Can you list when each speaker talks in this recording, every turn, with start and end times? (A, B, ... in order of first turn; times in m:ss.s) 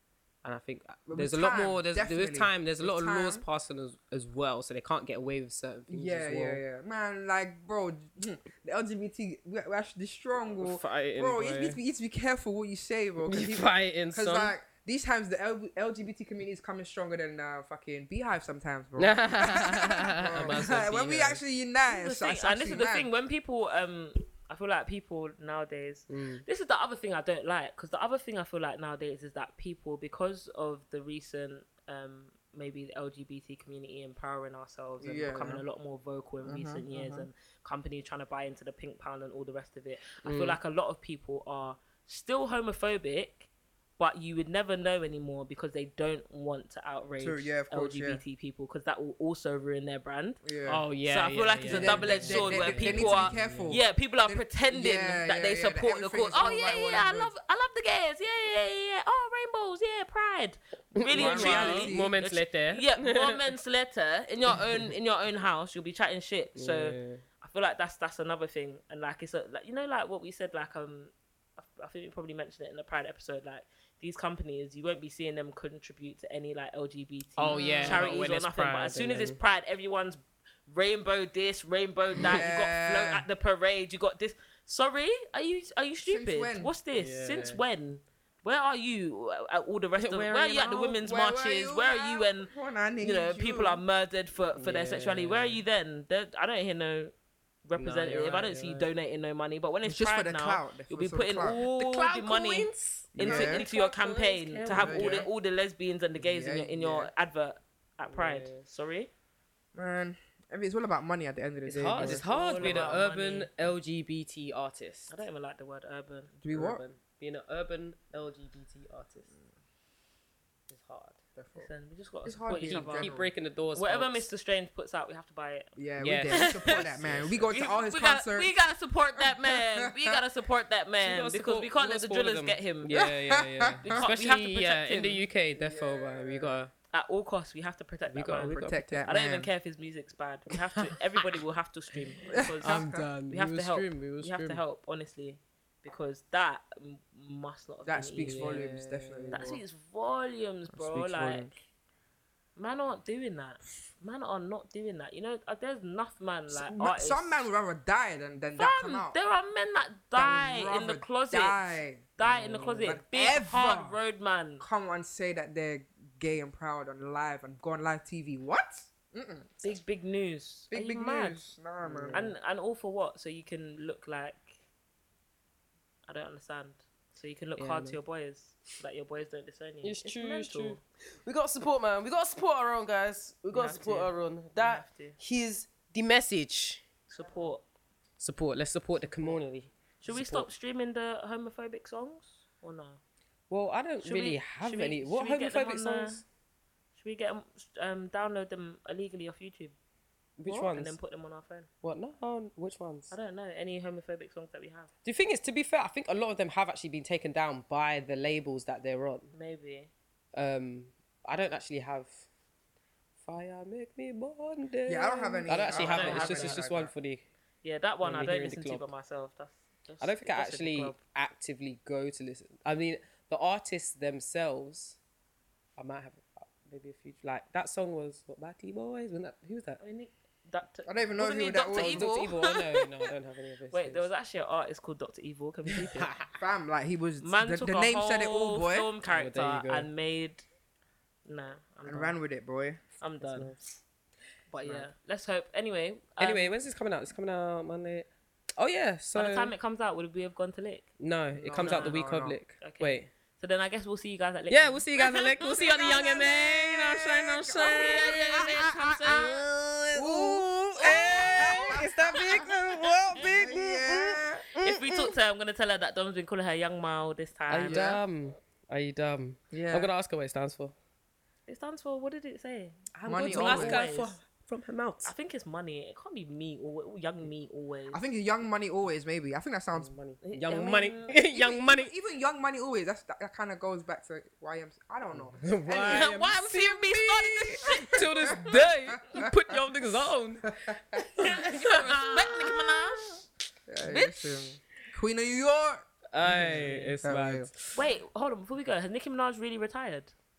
0:00.4-0:06.6 A
0:01.1-0:03.4 B
0:05.9-0:23.1 B
0:10.6-0:11.8 A
0:13.3-0:14.6 A
0:19.0-0:21.4 A
0:21.9-0:50.4 C
0:26.1-0:26.4 A
0:35.0-0:35.6 B
0:36.4-0:37.3 B
0:40.2-0:40.6 A
0:47.2-0:48.2 B
0:50.4-0:50.8 B
0:50.7-0:53.8 A
0:51.0-1:37.1 C
0:51.7-0:57.3 B
1:01.0-1:03.5 A
1:01.1-1:02.2 B
1:06.6-1:07.2 A
1:17.4-1:19.4 A
1:17.5-1:18.1 B
1:22.2-1:23.3 B
1:26.0-1:26.7 B
1:26.9-1:27.6 A
1:30.0-1:31.0 A
1:31.0-1:33.8 B
1:34.6-1:35.6 A
1:37.7-1:49.1 C
1:37.8-1:38.9 A
1:39.8-1:41.6 B
1:41.5-1:45.3 A
1:43.2-1:43.6 B
1:44.6-1:45.3 B
1:46.2-1:47.1 B
1:48.1-1:48.6 A
1:49.8-1:53.0 B
1:51.7-1:55.1 A
1:52.0-1:53.5 C
1:55.1-1:56.4 C
1:56.4-1:56.8 B
1:56.5-1:59.3 A
2:00.7-2:01.2 A
2:01.4-2:01.7 B
2:01.6-2:03.1 C
2:02.3-2:03.3 B
2:02.4-2:04.3 A
2:03.8-2:05.7 C
2:05.8-2:08.5 B
2:06.0-2:07.5 A
2:06.3-2:06.9 C
2:07.5-2:12.9 C
2:09.2-2:10.2 B
2:11.0-2:16.7 A
2:12.9-2:14.0 B
2:13.8-2:15.2 C
2:15.6-2:16.6 B
2:16.9-2:28.6 C
2:18.1-2:19.1 A
2:18.5-2:19.5 B
2:20.6-2:20.9 A
2:22.3-2:23.0 B
2:22.6-2:24.6 A
2:27.9-2:29.6 B
2:28.2-2:29.5 A
2:29.3-2:31.6 C
2:30.7-2:31.5 B
2:32.6-2:37.5 C
2:36.5-2:39.1 B
2:38.6-2:44.6 C
2:40.2-2:42.2 B
2:42.2-2:43.0 A
2:42.8-2:44.0 B
2:44.6-2:49.5 B
2:49.6-2:51.4 C
2:50.7-2:52.2 B
2:51.8-2:52.3 A
2:52.1-2:54.6 C
2:56.1-3:00.8 C
2:57.6-2:58.0 A
2:59.8-3:06.8 A
3:03.5-3:05.2 C
3:07.1-3:07.6 C
3:08.2-3:10.5 A
3:10.0-3:13.0 C
3:13.5-3:16.2 A
3:14.0-3:16.2 C
3:17.0-3:19.8 C
3:20.4-3:21.0 A
3:20.5-3:21.7 C
3:21.8-3:23.1 A
3:23.1-3:24.9 C
3:25.0-3:29.3 A
3:29.3-3:29.9 C
3:30.3-3:32.2 A
3:33.2-3:37.2 A
3:34.9-3:36.9 B
3:35.6-3:36.6 C
3:37.6-3:41.0 C
3:38.0-3:38.9 A
3:40.0-3:45.0 A
3:45.8-3:49.8 A
3:49.8-3:52.9 C
3:50.9-3:52.1 B
3:51.7-3:54.1 A
3:53.7-3:56.1 C
3:55.8-3:56.3 A
3:56.4-3:58.9 B
3:57.2-4:00.4 C
3:59.1-3:59.9 A
4:01.3-4:02.2 C
4:01.9-4:02.8 B
4:03.0-4:03.5 C
4:03.2-4:03.8 A
4:04.5-4:06.5 C
4:06.2-4:09.5 A
4:09.1-4:10.9 C
4:11.0-4:13.1 A
4:11.4-4:12.4 B
4:11.6-4:12.0 C
4:12.6-4:19.4 C
4:14.5-4:25.2 A
4:18.5-4:19.3 B
4:19.9-4:22.6 B
4:20.8-4:22.6 C
4:23.1-4:23.6 C
4:23.1-4:24.4 B
4:24.6-4:27.9 C
4:27.5-4:30.7 A
4:27.6-4:28.0 B
4:29.5-4:29.9 B
4:31.5-4:34.2 C
4:33.0-4:35.1 A
4:33.1-4:33.9 B
4:35.0-4:38.0 C
4:37.9-4:39.9 B
4:39.8-4:41.9 A
4:40.2-4:41.2 C
4:41.3-4:46.1 B
4:45.3-4:52.8 A
4:45.8-4:48.6 C
4:48.2-4:48.5 B
4:50.6-4:51.1 B
4:51.2-4:53.2 C
4:53.7-4:57.5 B
4:53.8-4:54.6 C
4:56.1-4:57.8 A
4:56.2-4:57.0 C
4:57.7-5:00.1 C